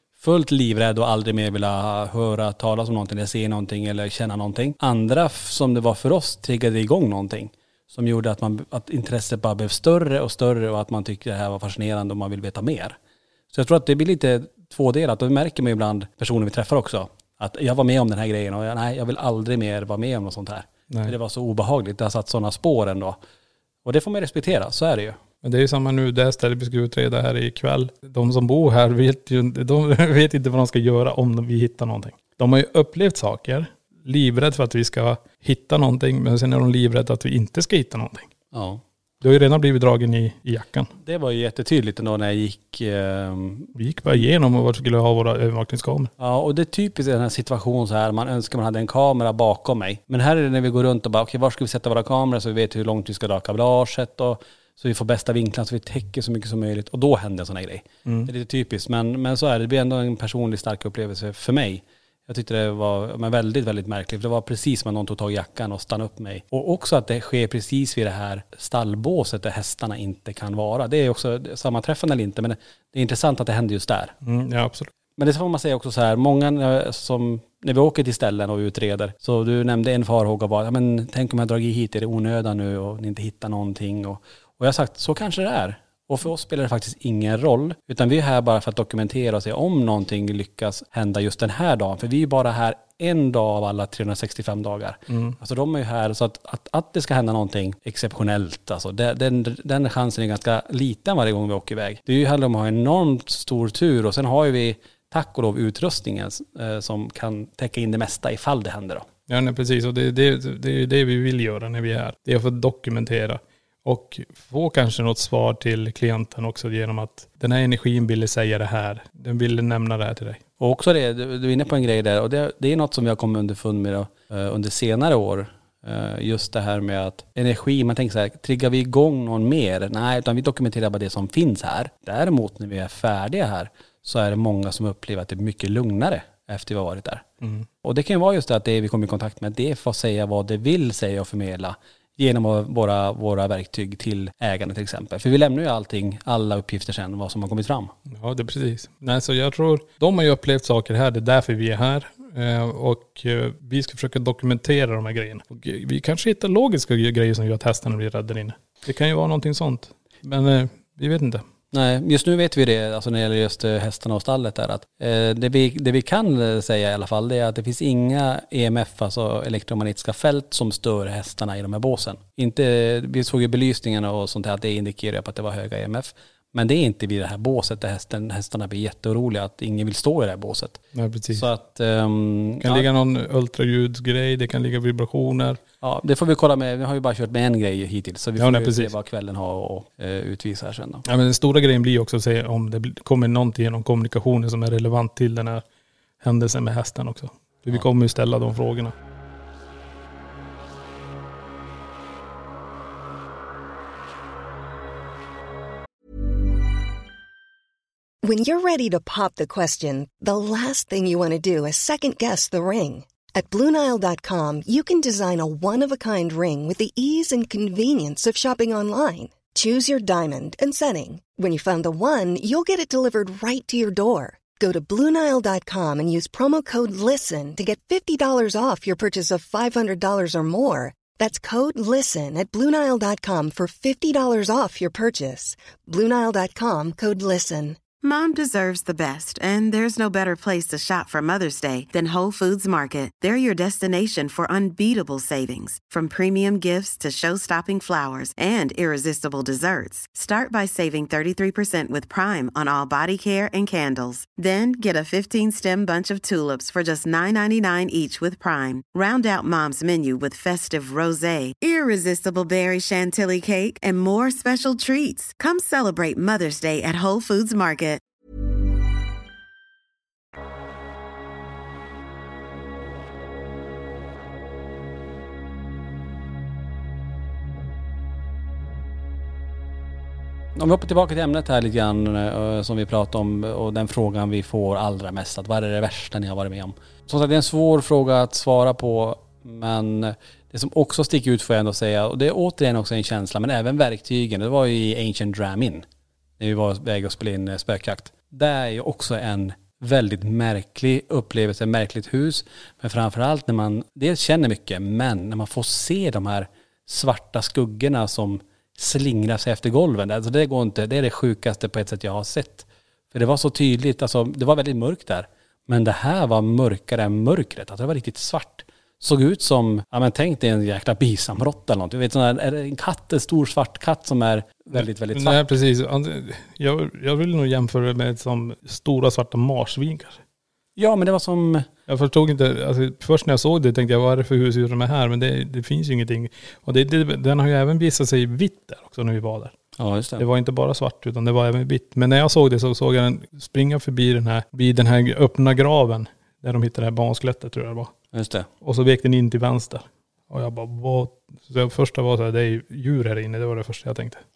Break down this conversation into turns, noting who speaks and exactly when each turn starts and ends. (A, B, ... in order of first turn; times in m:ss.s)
0:00.2-0:13.0 A
0:13.5-0:23.2 A
0:23.8-0:25.2 A
0:25.4-0:38.3 B
0:38.5-0:38.8 A
0:39.2-0:40.9 B
0:41.0-0:43.7 A
0:43.7-0:46.1 B
0:46.2-1:14.2 A
0:58.0-0:58.3 B
1:14.2-1:14.9 B
1:15.2-1:49.1 A
1:35.1-1:35.4 B
1:49.3-2:00.4 B
2:00.6-2:17.2 A
2:17.8-2:27.9 A
2:28.1-2:41.4 B
2:41.7-3:02.9 A
3:00.9-3:01.5 B
3:02.6-3:05.6 B
3:05.8-3:11.0 A
3:08.4-3:08.9 B
3:11.1-3:15.6 B
3:16.2-3:18.9 B
3:28.2-3:57.8 C
3:58.0-4:28.0 D
4:40.6-4:55.8 A
4:56.4-5:25.4 A
5:24.8-5:30.2 B
5:30.8-5:31.7 A
5:31.9-5:39.6 B
5:39.8-5:40.2 A
5:40.2-5:47.9 B
5:48.1-5:48.5 A
5:48.6-5:54.2 B